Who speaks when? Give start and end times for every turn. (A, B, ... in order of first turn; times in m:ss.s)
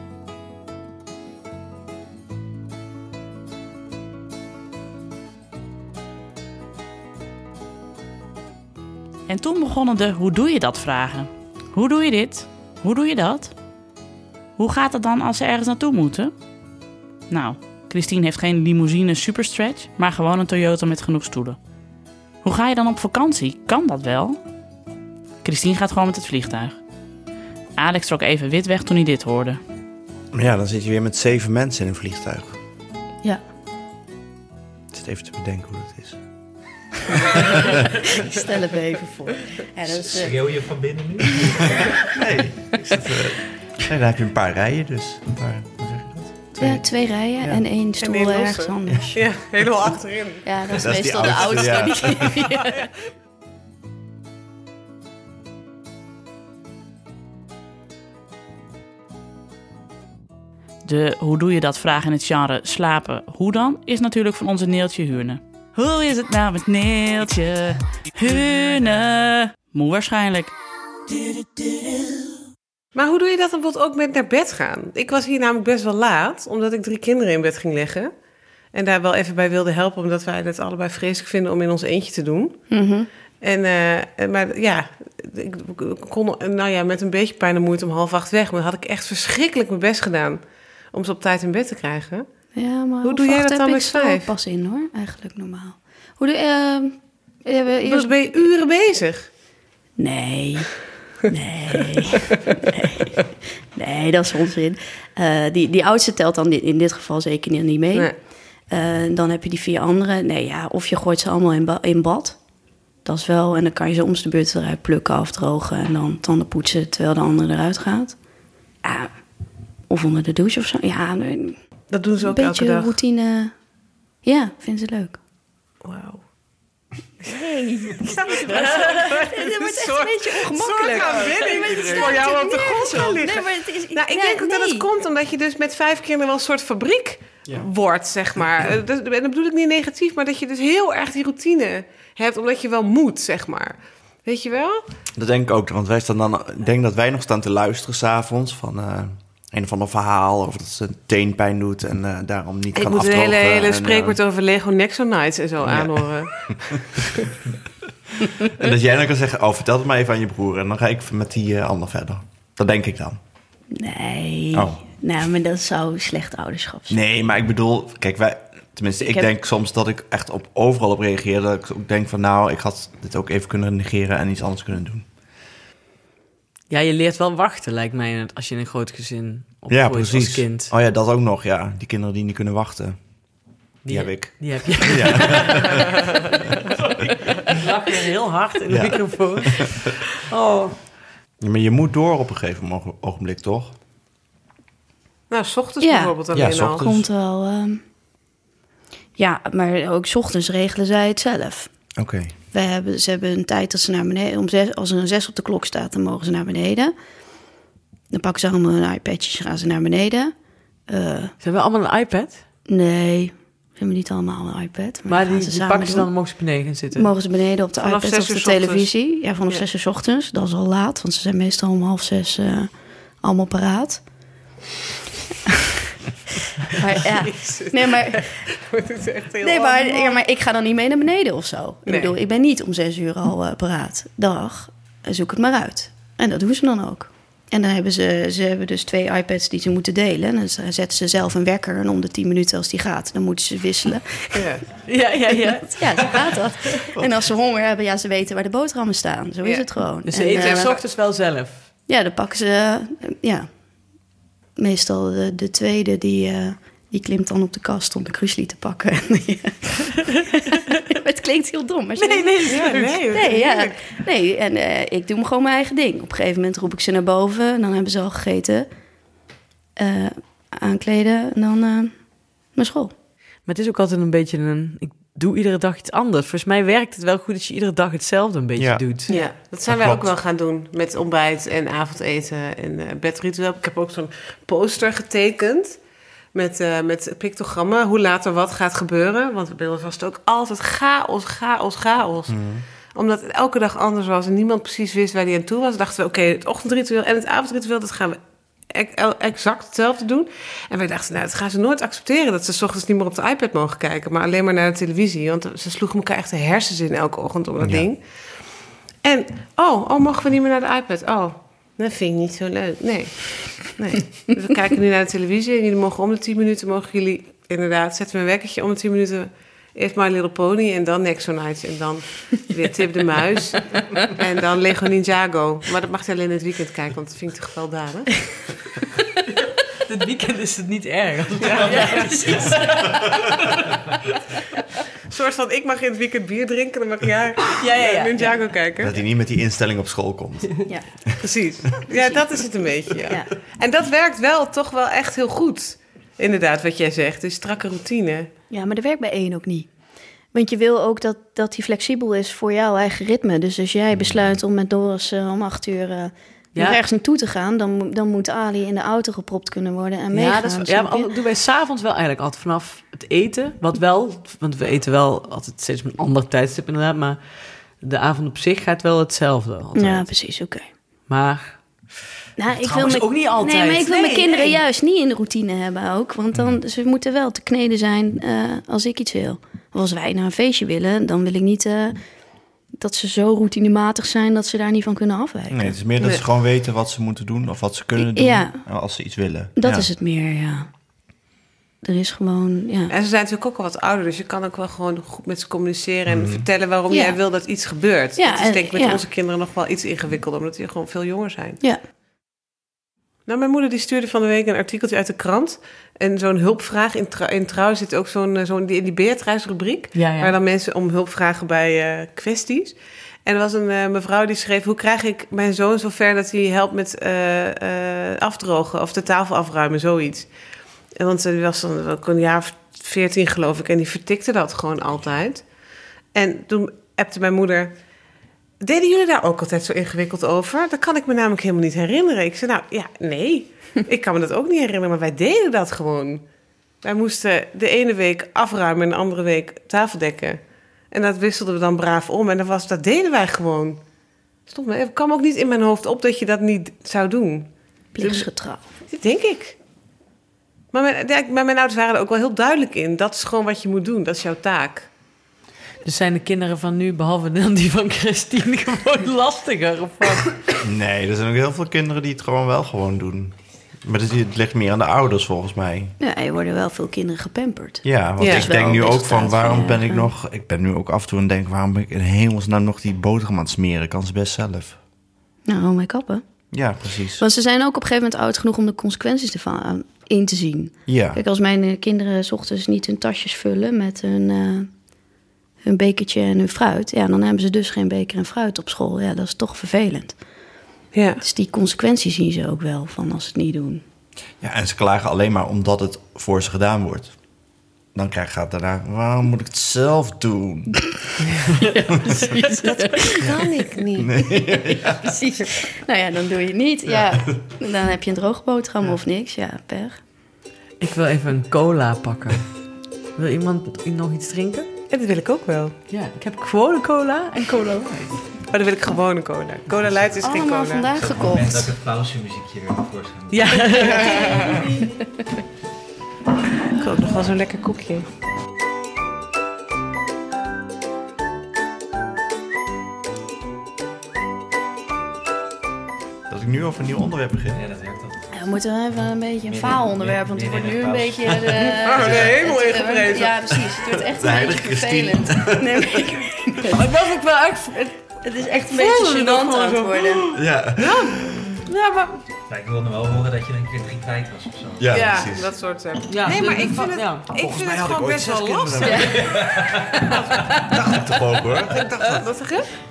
0:09.3-0:13.5 A
0:14.6-0:16.3 A
0:17.3-0:21.6 A
0:22.4-0:24.4 A
0:25.4-0:26.8 A
0:27.8-0:29.6 A
0:30.3-0:32.6 B
0:34.9-0:36.2 B
0:37.2-0:37.8 B
0:38.0-0:40.4 C
0:40.0-0:41.8 D
0:42.0-0:46.8 B
0:46.6-0:49.2 C
0:48.0-0:50.4 E
0:50.4-0:52.9 C
0:50.7-0:52.4 B
1:00.8-1:10.5 A
1:11.1-1:12.2 A
1:12.9-1:18.1 E
1:18.7-1:22.6 E
1:22.7-1:23.1 C
1:23.4-1:32.2 E
1:32.6-1:38.1 C
1:33.0-1:34.3 E
1:37.8-1:39.3 E
1:40.0-1:48.1 C
1:48.7-1:52.4 C
1:53.0-1:58.1 C
1:58.8-1:59.1 C
1:59.9-2:01.6 C
2:01.9-2:02.9 E
2:02.2-2:03.5 C
2:04.2-2:05.2 C
2:05.8-2:06.2 E
2:07.2-2:14.9 C
2:08.0-2:24.8 E
2:25.1-2:34.2 B
2:32.7-2:37.0 E
2:35.6-2:37.0 B
2:38.2-2:43.2 B
2:43.7-2:47.0 C
2:44.5-2:44.8 B
2:46.9-2:55.1 B
2:49.0-2:49.3 C
2:56.7-3:00.7 F
2:59.7-3:03.0 B
3:03.8-3:10.8 F
3:03.9-3:05.9 B
3:08.7-3:09.8 B
3:11.4-3:13.7 B
3:15.3-3:16.8 E
3:15.8-3:16.2 C
3:16.3-3:17.0 B
3:16.8-3:17.8 C
3:19.2-3:21.7 C
3:22.0-3:22.3 B
3:22.5-3:26.9 C
3:28.1-3:30.3 C
3:30.9-3:31.3 C
3:31.4-3:32.4 F
3:32.7-3:36.1 C
3:35.1-3:37.1 F
3:36.9-3:42.7 C
3:37.8-3:38.9 E
3:43.2-3:44.0 C
3:45.5-3:45.9 C
3:46.7-3:48.3 C
3:47.0-3:50.2 E
3:49.4-4:04.5 C
3:51.9-3:52.1 E
4:04.3-4:04.7 E
4:04.8-4:06.2 F
4:05.3-4:10.8 C
4:09.4-4:09.7 E
4:10.0-4:11.7 F
4:10.3-4:10.8 E
4:11.9-4:13.5 C
4:14.6-4:28.7 C
4:22.0-4:23.0 F
4:22.4-4:23.8 E
4:29.8-4:31.9 C
4:32.5-4:32.9 C
4:33.4-4:39.2 F
4:38.6-4:40.1 B
4:39.1-4:45.8 E
4:46.3-4:52.3 E
4:52.3-4:52.6 B
4:52.9-4:58.2 E
4:58.7-5:08.0 E
5:07.6-5:07.9 B
5:09.0-5:28.3 E
5:29.8-5:33.8 F
5:31.4-5:32.4 E
5:31.9-5:32.8 C
5:35.1-5:39.0 E
5:37.5-5:38.4 F
5:38.8-5:40.6 B
5:41.2-5:48.3 E
5:41.9-5:42.3 C
5:43.0-5:43.3 C
5:48.5-5:49.7 C
5:50.3-6:01.1 C
6:00.1-6:07.2 F
6:07.8-6:10.0 F
6:09.7-6:10.6 C
6:11.1-6:11.6 F
6:12.4-6:22.0 C
6:12.6-6:14.5 F
6:22.8-6:25.8 C
6:25.5-6:29.9 B
6:28.0-6:28.6 C
6:29.6-6:30.7 C
6:31.8-6:32.9 C
6:32.9-6:41.6 E
6:36.1-6:36.4 B
6:36.9-6:37.2 C
6:38.2-6:39.0 C
6:43.2-7:00.3 E
6:49.9-6:50.4 F
7:01.0-7:05.4 E
7:06.1-7:07.7 E
7:08.6-7:16.2 E
7:16.8-7:23.8 E
7:24.5-7:28.3 E
7:27.9-7:28.6 C
7:28.9-7:29.6 E
7:30.7-7:34.9 E
7:35.8-7:40.4 F
7:40.5-7:45.9 B
7:46.0-7:50.1 C
7:47.8-7:54.8 B
7:48.2-7:48.6 E
7:55.4-7:56.2 C
7:56.5-7:57.2 B
7:57.2-8:04.7 C
8:00.9-8:01.2 B
8:05.6-8:10.2 C
8:10.9-8:11.2 E
8:11.2-8:13.8 C
8:14.4-8:17.1 B
8:17.9-8:20.9 B
8:21.4-8:21.8 F
8:21.7-8:23.3 C
8:22.6-8:24.2 E
8:24.0-8:25.1 B
8:24.4-8:30.0 C
8:30.8-8:32.5 F
8:33.2-8:34.7 F
8:34.9-8:35.8 E
8:35.9-8:38.2 F
8:38.5-8:40.9 E
8:39.8-8:40.2 D
8:40.2-8:41.7 C
8:41.0-8:43.8 D
8:43.3-8:44.8 F
8:43.8-8:44.7 E
8:46.7-8:48.1 E
8:56.3-8:57.6 B
8:57.5-8:58.3 D
8:58.3-9:06.9 C
8:59.5-9:02.3 D
9:01.8-9:03.4 E
9:04.0-9:06.1 B
9:06.6-9:08.0 F
9:08.2-9:10.3 C
9:08.7-9:10.2 E
9:10.3-9:11.6 B
9:10.8-9:11.1 E
9:11.7-9:12.2 F
9:12.5-9:15.2 D
9:14.8-9:15.5 B
9:14.9-9:19.3 E
9:16.1-9:17.3 F
9:17.3-9:19.3 B
9:18.8-9:19.4 C
9:19.2-9:20.0 D
9:20.0-9:20.5 E
9:20.5-9:22.2 B
9:21.7-9:22.7 E